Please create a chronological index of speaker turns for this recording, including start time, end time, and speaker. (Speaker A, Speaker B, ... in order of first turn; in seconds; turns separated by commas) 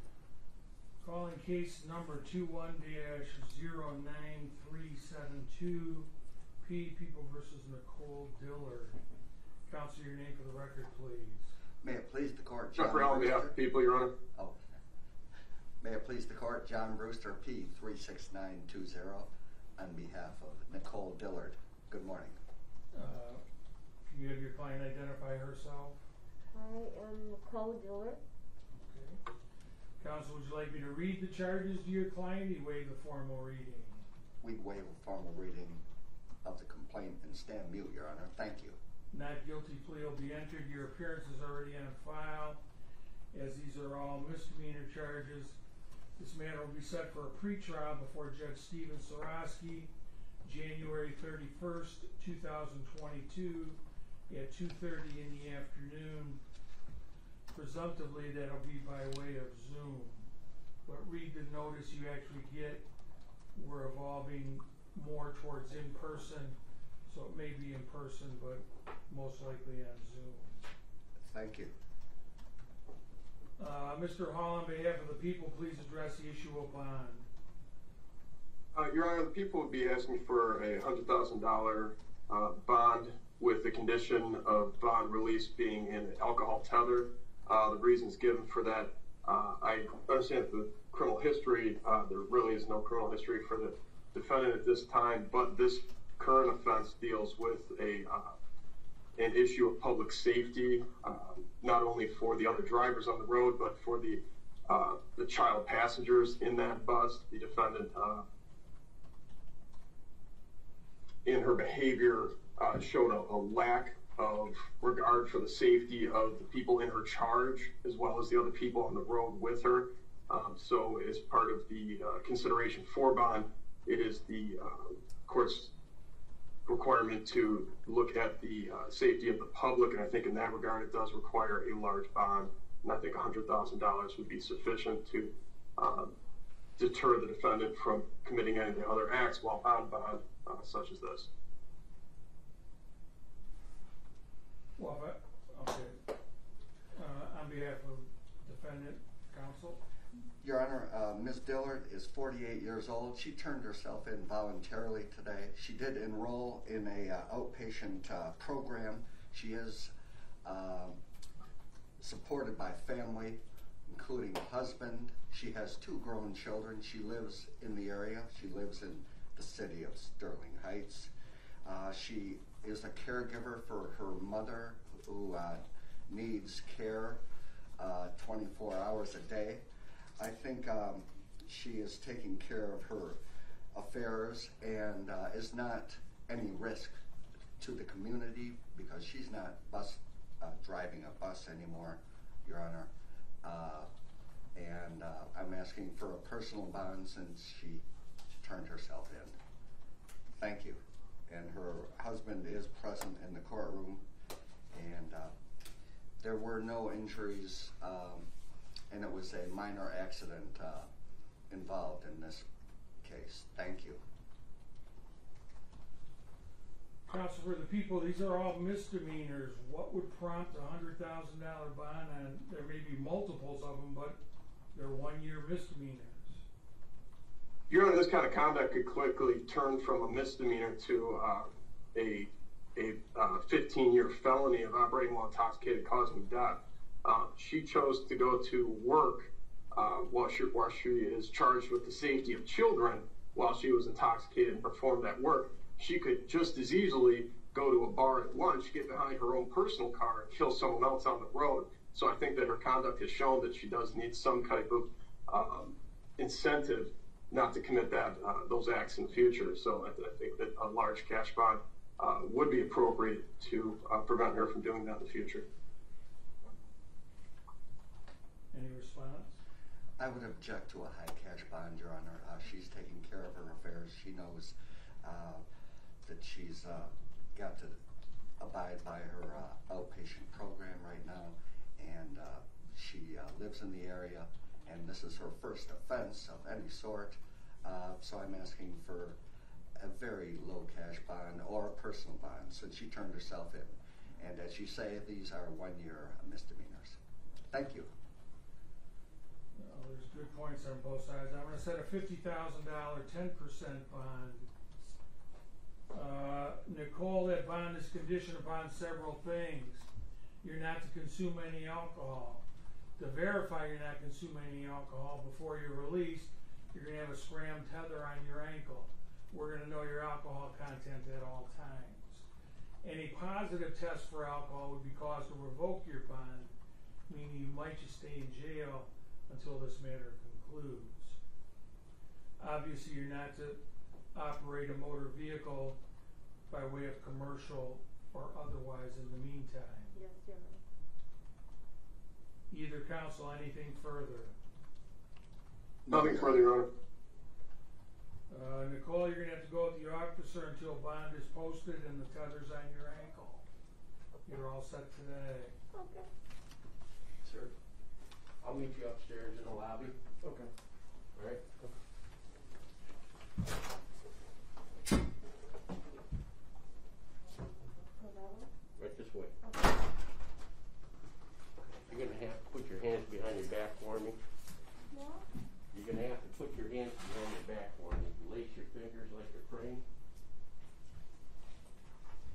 Speaker A: 1.0-6.1, Speaker A: 6.6-9.0, Speaker A: 9.7-11.5, Speaker B: 11.8-13.5, Speaker C: 12.8-14.1, Speaker B: 15.8-22.4, Speaker A: 22.9-23.4, Speaker A: 24.0-26.0, Speaker D: 26.6-28.2, Speaker A: 28.8-29.2, Speaker A: 30.0-34.1, Speaker B: 34.4-35.8, Speaker B: 36.4-38.8, Speaker A: 39.1-42.6, Speaker A: 43.3-45.6, Speaker A: 46.2-49.9, Speaker A: 50.4-56.4, Speaker A: 57.5-60.3, Speaker A: 60.9-62.9, Speaker A: 63.5-70.6, Speaker B: 71.2-71.7, Speaker A: 73.6-77.3, Speaker C: 78.7-98.4, Speaker C: 99.2-108.2, Speaker C: 111.2-125.7, Speaker C: 126.7-136.1, Speaker C: 136.8-141.3, Speaker A: 144.8-146.0, Speaker A: 146.9-149.8, Speaker B: 150.4-159.9, Speaker B: 160.4-161.0, Speaker B: 162.0-171.1, Speaker B: 171.7-177.2, Speaker B: 177.8-179.6, Speaker B: 180.2-183.2, Speaker B: 183.7-187.0, Speaker B: 187.6-192.9, Speaker B: 193.4-193.9, Speaker B: 194.6-197.8, Speaker B: 198.4-199.4, Speaker B: 200.4-204.0, Speaker B: 204.7-205.3, Speaker B: 206.2-208.3, Speaker B: 208.9-210.9, Speaker B: 211.5-212.4, Speaker B: 213.0-214.0, Speaker A: 217.1-224.2, Speaker A: 224.7-226.4, Speaker C: 227.7-265.5, Speaker A: 268.5-269.4, Speaker B: 270.0-275.4, Speaker B: 276.0-277.8, Speaker B: 278.4-289.2, Speaker B: 289.8-297.0, Speaker B: 297.5-297.9, Speaker A: 299.6-304.5, Speaker A: 305.9-309.9, Speaker A: 310.4-312.4, Speaker A: 313.0-322.2, Speaker A: 322.8-326.5, Speaker A: 327.1-331.2, Speaker A: 332.4-333.6, Speaker A: 334.1-335.8, Speaker A: 336.5-340.0, Speaker D: 339.9-340.6, Speaker A: 342.5-344.4, Speaker B: 345.9-346.5, Speaker C: 345.9-346.7, Speaker A: 348.3-353.4, Speaker A: 354.3-355.6, Speaker D: 355.7-356.1, Speaker E: 357.2-357.5, Speaker E: 358.4-360.0, Speaker E: 361.1-361.7, Speaker D: 368.0-368.5, Speaker E: 368.8-369.4, Speaker E: 371.7-374.2, Speaker D: 374.9-375.2, Speaker E: 375.7-379.8